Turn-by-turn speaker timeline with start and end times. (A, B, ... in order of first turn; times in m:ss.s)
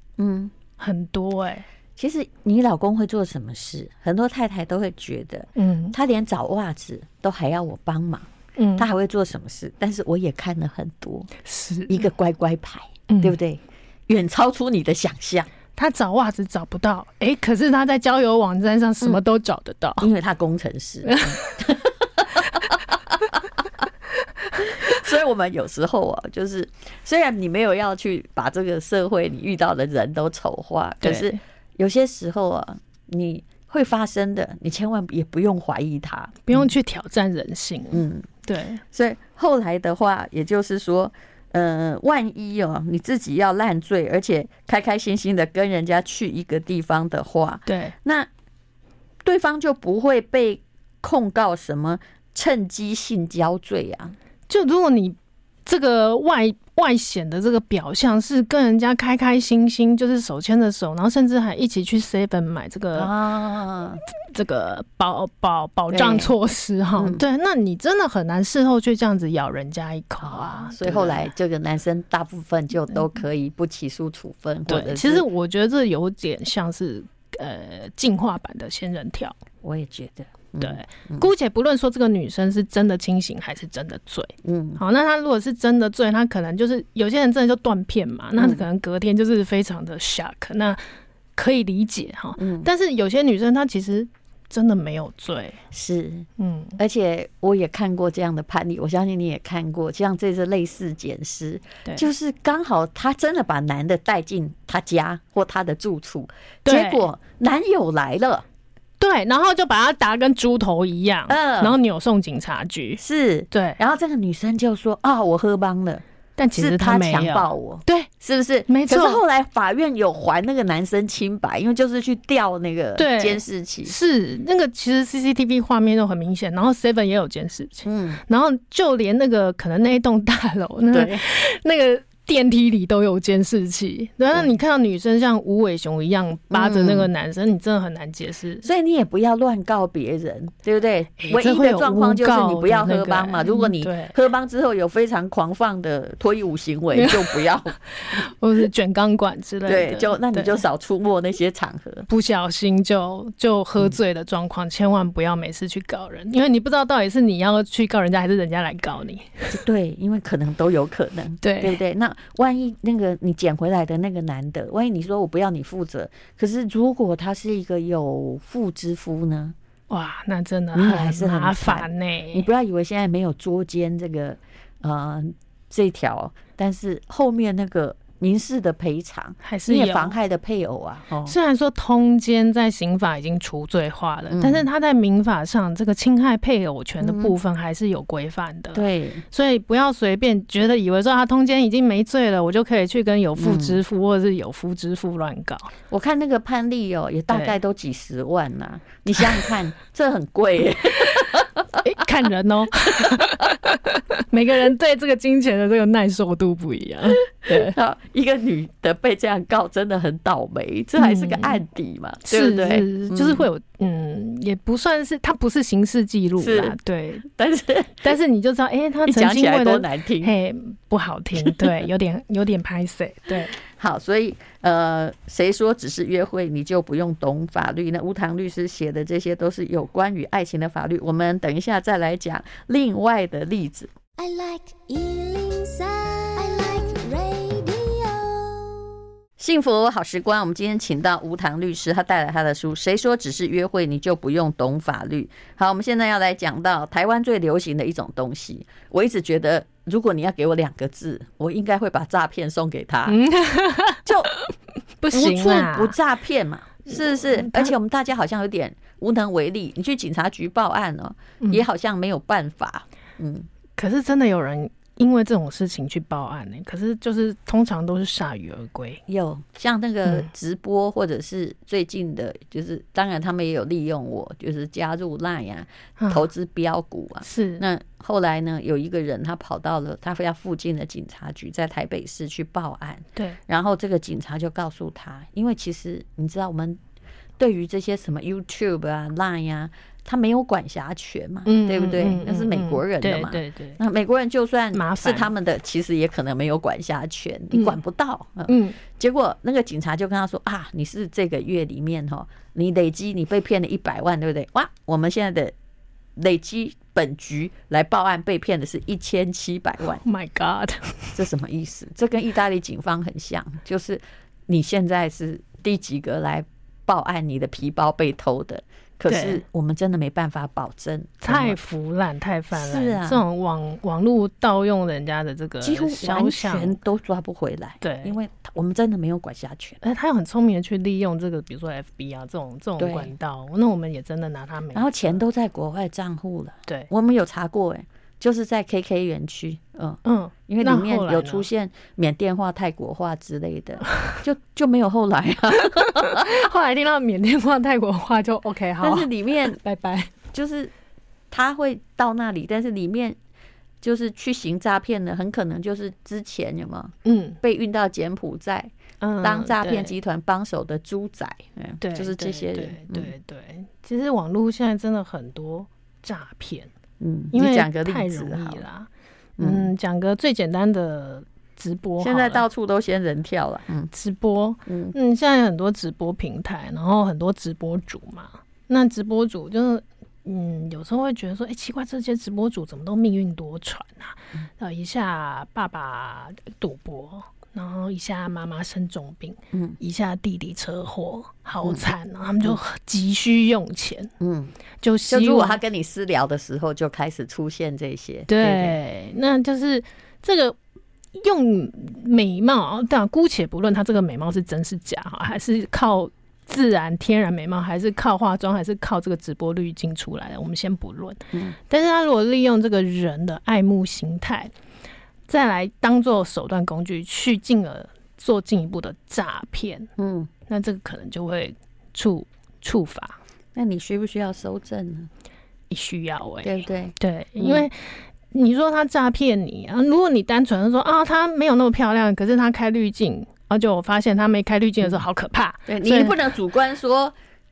0:00.2-0:00.5 A
0:00.8-0:01.6 B
0:02.0-0:11.3 A
0:05.6-0:05.9 B
0:08.6-0:08.9 B
0:11.4-0:12.0 B
0:11.9-0:15.5 A
0:13.1-0:13.4 B
0:15.8-0:20.1 B
0:20.0-0:23.6 A
0:21.1-0:21.4 B
0:24.6-0:36.7 A
0:31.0-0:31.4 B
0:36.5-0:38.8 B
0:37.9-0:38.3 A
0:38.9-0:48.3 A
0:47.7-0:47.9 B
0:49.2-0:54.1 A
0:54.5-1:03.1 B
1:02.9-1:04.0 A
1:04.3-1:11.3 B
1:05.9-1:06.3 A
1:07.0-1:07.2 A
1:10.2-1:15.2 A
1:14.7-1:19.4 B
1:19.6-1:21.3 A
1:20.6-1:30.8 B
1:24.4-1:24.8 A
1:28.4-1:28.6 A
1:31.4-1:35.6 B
1:32.4-1:32.7 A
1:35.7-1:48.4 A
1:36.4-1:36.8 B
1:46.6-1:47.0 B
1:49.0-1:53.8 B
1:51.3-1:51.8 A
1:53.0-1:56.0 A
1:56.4-1:58.1 B
1:56.5-2:03.9 A
1:58.7-1:59.2 B
2:03.0-2:18.6 B
2:07.8-2:08.2 A
2:10.9-2:11.2 A
2:16.5-2:17.1 A
2:18.6-2:28.2 A
2:21.2-2:24.1 B
2:26.9-2:27.4 B
2:28.0-2:30.6 B
2:29.6-2:32.1 A
2:32.1-2:39.6 B
2:39.5-2:49.5 A
2:41.4-2:41.8 B
2:49.9-2:52.5 B
2:50.7-3:01.4 A
2:59.4-3:00.2 B
3:01.2-3:15.7 B
3:04.3-3:04.7 A
3:07.0-3:07.3 A
3:08.7-3:09.2 A
3:13.4-3:13.8 A
3:15.9-3:21.6 A
3:17.3-3:17.6 B
3:21.8-3:27.8 B
3:23.0-3:23.5 A
3:27.4-3:33.4 A
3:31.0-3:31.6 B
3:32.2-3:37.2 B
3:36.4-3:36.8 A
3:37.2-3:38.1 A
3:38.0-3:43.5 B
3:39.0-3:40.3 A
3:41.4-3:41.7 A
3:43.6-3:53.9 A
3:54.2-3:58.9 C
3:59.4-4:13.2 A
4:13.1-4:16.0 B
4:14.0-4:14.3 A
4:15.1-4:23.5 A
4:17.1-4:17.7 B
4:23.8-4:29.0 B
4:29.1-4:46.8 A
4:36.0-4:36.3 B
4:37.2-4:37.6 B
4:47.4-5:05.5 A
4:51.5-4:53.8 B
4:54.7-4:55.3 B
4:57.5-4:57.8 B
4:58.5-4:58.8 B
5:06.2-5:10.0 A
5:10.0-5:11.2 B
5:11.1-5:21.6 A
5:19.1-5:19.4 B
5:21.2-5:26.8 B
5:22.5-5:23.2 A
5:25.6-5:29.8 A
5:27.8-5:28.1 B
5:29.8-5:35.2 B
5:32.8-5:33.1 A
5:34.7-5:46.4 A
5:40.0-5:41.5 B
5:46.0-5:50.2 B
5:48.8-5:49.6 A
5:50.3-5:50.7 A
5:51.3-5:53.2 A
5:53.8-6:03.1 A
5:57.0-5:57.4 B
5:59.0-5:59.9 B
6:01.8-6:06.7 B
6:07.0-6:08.6 A
6:07.3-6:08.9 B
6:09.4-6:09.7 A
6:09.4-6:12.4 B
6:12.0-6:13.9 A
6:13.9-6:34.1 B
6:14.7-6:14.9 A
6:29.5-6:29.8 A
6:34.2-6:34.5 A
6:34.8-6:35.6 B
6:35.0-6:38.8 A
6:38.3-6:40.6 B
6:41.1-6:54.5 B
6:55.3-6:59.9 B
7:00.0-7:00.3 A
7:00.5-7:03.2 B
7:03.5-7:05.1 A
7:05.7-7:16.2 B
7:06.4-7:07.6 A
7:15.7-7:17.1 A